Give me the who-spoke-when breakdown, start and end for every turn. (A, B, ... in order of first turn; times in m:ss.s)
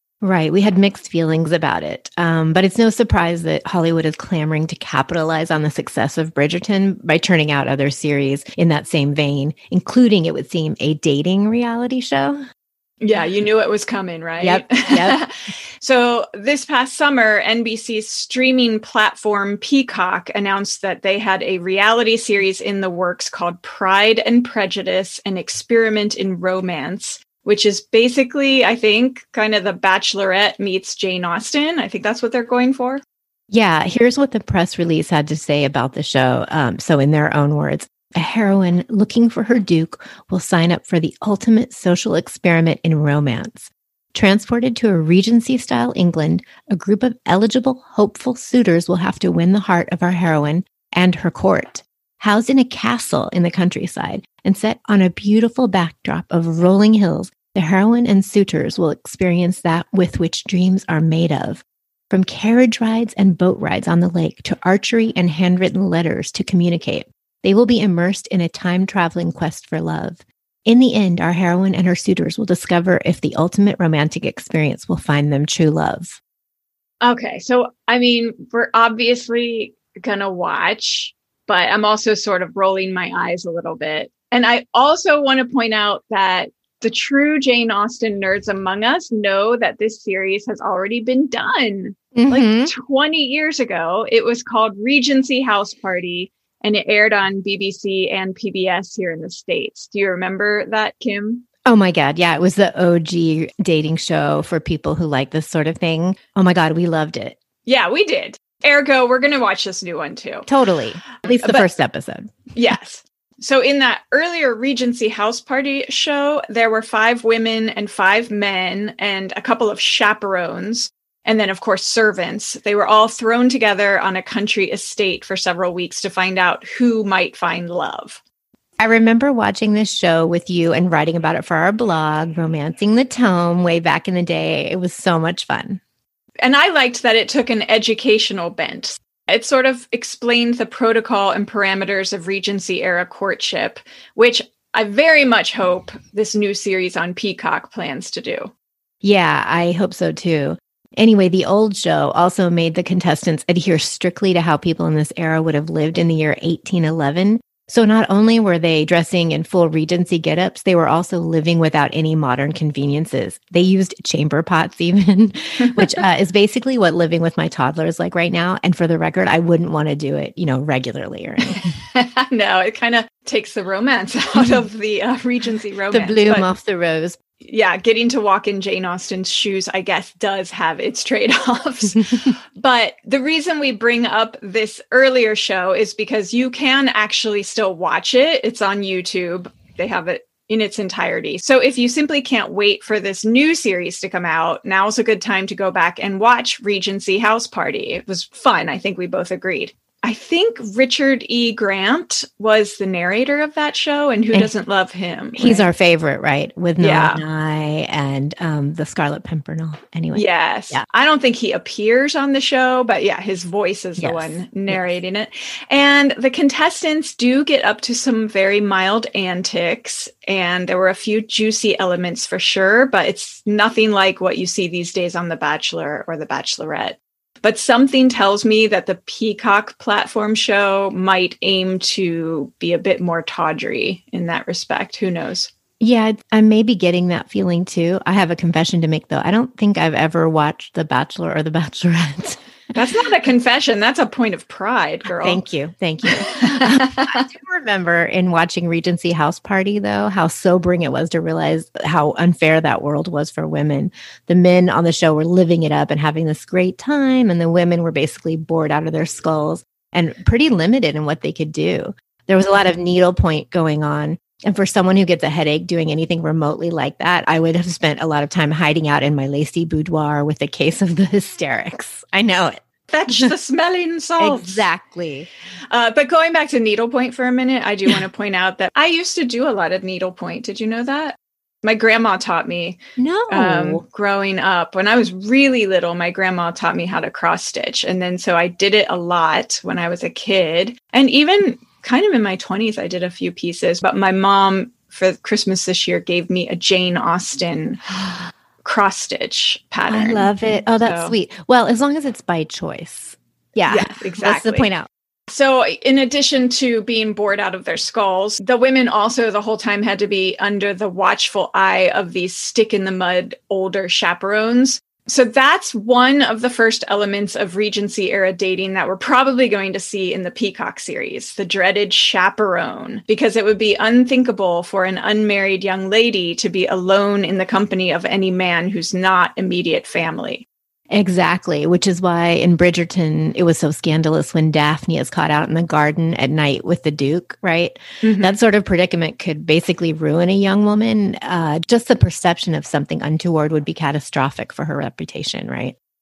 0:00.2-0:12.4 A
0:13.0-0:33.0 B
0:14.4-0:15.2 A
0:33.5-1:16.2 A
1:17.0-1:41.4 B
1:32.1-1:32.7 A
1:41.6-1:47.4 A
1:47.6-1:50.5 B
1:50.5-1:52.4 A
1:51.2-1:51.7 B
1:52.5-2:08.2 B
2:08.8-2:15.8 A
2:16.4-2:28.5 B
2:29.0-2:51.7 A
2:45.6-2:46.0 B
2:51.4-2:56.4 B
2:55.9-2:57.2 A
2:57.4-3:25.7 B
3:25.4-3:30.8 A
3:26.8-3:27.2 B
3:30.1-3:55.5 B
3:34.0-3:35.0 A
3:55.8-4:02.4 A
4:02.7-4:05.4 B
4:05.1-4:33.3 A
4:06.0-4:07.3 B
4:32.9-4:34.7 B
4:34.2-4:35.3 A
4:35.7-4:42.8 B
4:43.0-4:43.8 A
4:43.3-4:57.9 B
4:58.6-5:01.1 B
4:59.9-5:04.9 A
5:03.7-5:04.7 B
5:05.3-5:30.4 B
5:30.9-5:45.8 A
5:38.0-5:38.4 B